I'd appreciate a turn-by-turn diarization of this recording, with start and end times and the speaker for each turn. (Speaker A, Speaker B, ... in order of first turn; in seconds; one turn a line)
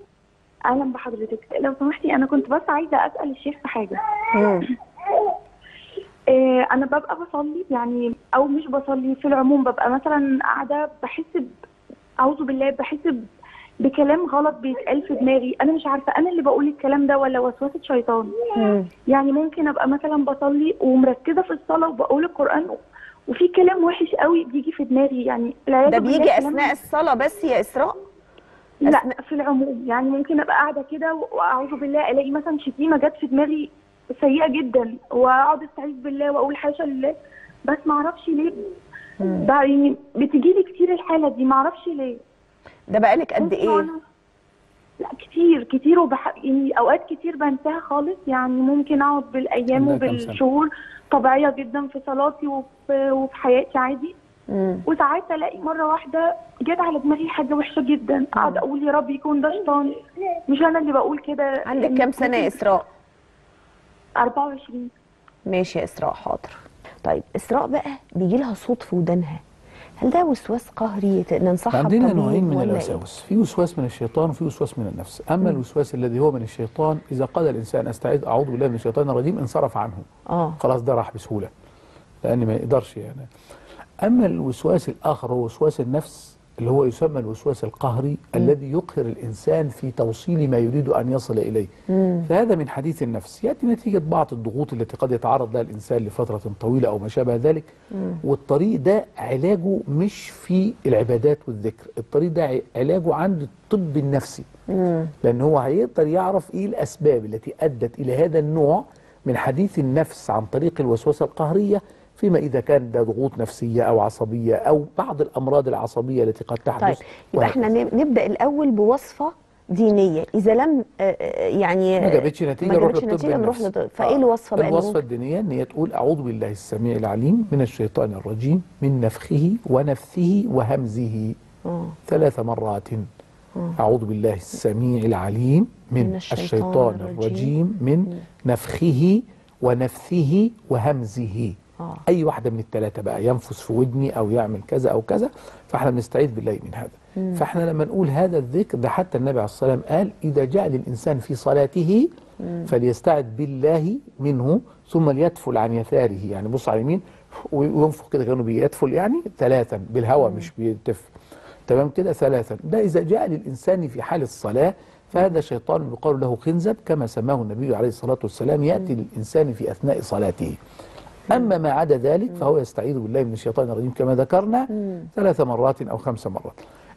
Speaker A: 0.7-4.0
Speaker B: 4.3-4.7
Speaker A: 6.3-11.5
Speaker A: 12.2-13.3
Speaker A: 13.8-18.4
Speaker B: 18.6-18.9
Speaker A: 19.1-22.8
Speaker A: 23.3-26.8
Speaker B: 25.9-28.0
Speaker A: 28.8-37.1
Speaker B: 28.9-29.1
Speaker A: 37.7-38.6
Speaker B: 39.2-39.5
Speaker A: 39.3-42.2
Speaker B: 42.9-43.9
Speaker A: 43.4-44.0
Speaker A: 45.0-54.1
Speaker C: 49.7-50.4
Speaker B: 54.5-54.8
Speaker A: 54.9-60.0
Speaker B: 58.4-58.6
Speaker A: 60.5-62.6
Speaker B: 61.6-62.9
Speaker A: 64.2-64.9
Speaker B: 65.5-69.4
Speaker B: 70.0-73.0
Speaker C: 71.7-80.1
Speaker B: 80.3-80.6
Speaker C: 80.6-81.5
Speaker C: 82.2-83.3
Speaker C: 84.0-91.7
Speaker B: 91.9-92.3
Speaker C: 92.2-97.7
Speaker C: 98.2-104.5
Speaker B: 104.7-105.1
Speaker C: 105.2-117.7
Speaker B: 116.8-125.0
Speaker C: 122.0-131.4
Speaker B: 131.7-132.0
Speaker C: 132.1-133.1
Speaker C: 133.8-152.1
Speaker B: 136.0-137.5
Speaker C: 152.6-161.1
Speaker C: 161.7-170.6
Speaker C: 171.3-176.6